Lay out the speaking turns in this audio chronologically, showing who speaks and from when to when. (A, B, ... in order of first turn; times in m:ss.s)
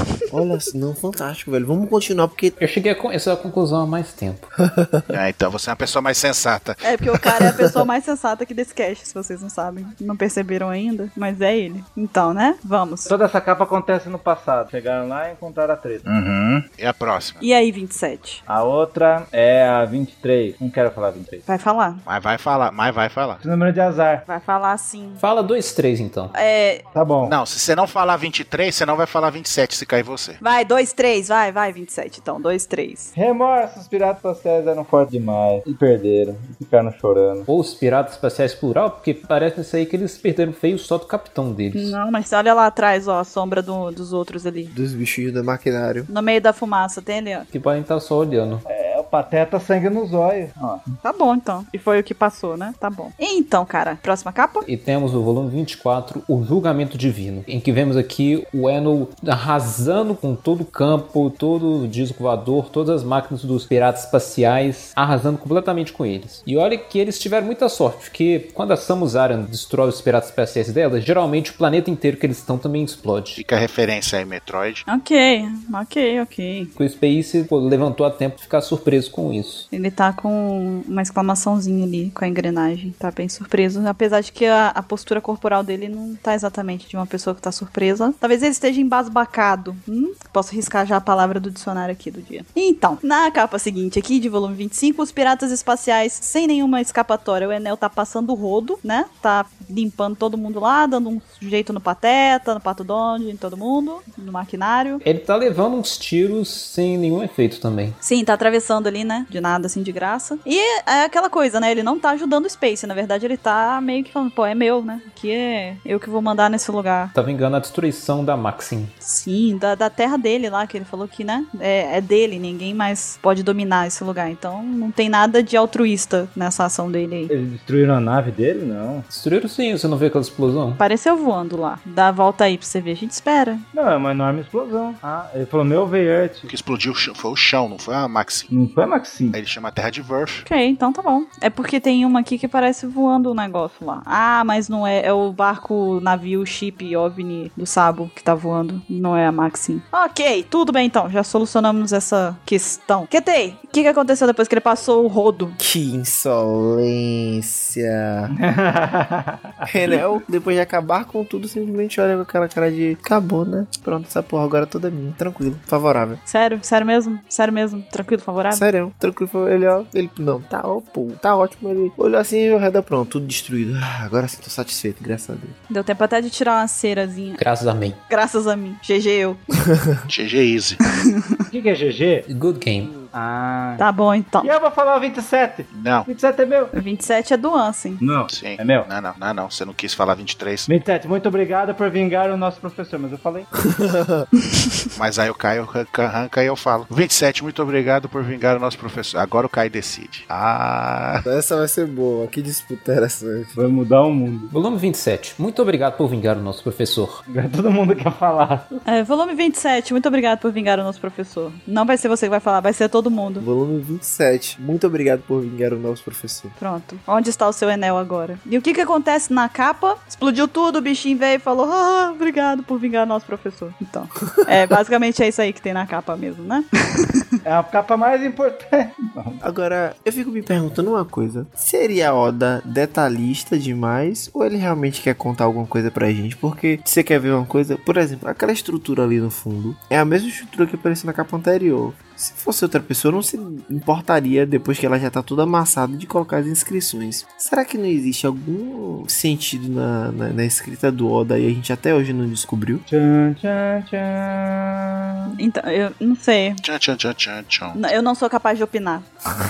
0:00.3-0:02.6 A
0:02.6-0:04.5 B
0:04.8-0:05.1 A
0:05.1-0:06.8 C
0:06.8-0:13.1 D
0:13.1-0:16.1 E
0:16.0-0:17.4 C
0:17.4-0:18.4 D
0:18.5-0:21.4 E
0:21.5-0:22.0 D
0:22.1-0:23.4 C
0:23.4-0:24.2 E
0:24.2-0:25.2 D
0:25.2-0:26.3 B
0:26.3-0:26.8 D
0:26.9-0:27.4 E
0:27.2-0:30.4 C
0:30.4-0:33.1 D
0:33.1-0:37.5 E
0:37.5-0:42.0 B
0:41.7-0:44.7 D
0:44.7-0:46.1 A
0:46.1-0:47.5 D
0:47.5-0:48.6 B
0:48.7-0:50.9 E
0:51.0-0:54.6 D
0:54.6-1:13.4 B
1:13.4-1:14.8 C
1:14.9-1:16.7 D
1:16.8-1:19.7 B
1:19.7-1:45.0 D
1:45.0-1:48.0 B
1:48.0-1:57.1 D
1:57.1-1:58.9 B
1:59.0-2:07.3 D
2:07.3-2:09.1 E
2:09.1-2:10.8 B
2:10.8-2:13.6 D
2:13.7-2:16.5 E
2:16.5-2:18.5 C
2:18.5-2:19.4 E
2:19.3-2:20.5 C
2:20.5-2:35.6 D
2:35.6-2:38.3 A
2:38.3-2:39.7 E
2:39.7-2:46.2 A
2:46.3-2:48.6 D
2:48.5-2:55.6 A
2:55.7-2:57.4 D
2:57.4-2:58.0 B
2:58.1-2:59.4 D
3:00.1-3:00.8 C
3:01.5-3:02.3 E
3:02.3-3:03.0 B
3:03.1-3:03.8 E
3:03.8-3:04.5 D
3:04.4-3:06.7 E
3:05.7-3:06.1 C
3:06.7-3:08.0 D
3:08.0-3:08.9 E
3:08.3-3:10.7 C
3:10.7-3:13.5 E
3:13.6-3:14.3 A
3:15.0-3:21.3 C
3:21.2-3:23.6 A
3:23.6-3:24.5 E
3:24.5-3:27.2 B
3:27.3-3:28.8 E
3:28.9-3:33.4 D
3:33.4-3:36.6 A
3:36.6-3:47.1 D
3:47.4-3:49.4 E
3:49.4-4:12.8 A
4:12.9-4:15.3 E
4:15.3-4:16.6 D
4:16.6-4:17.8 C
4:17.8-4:19.1 D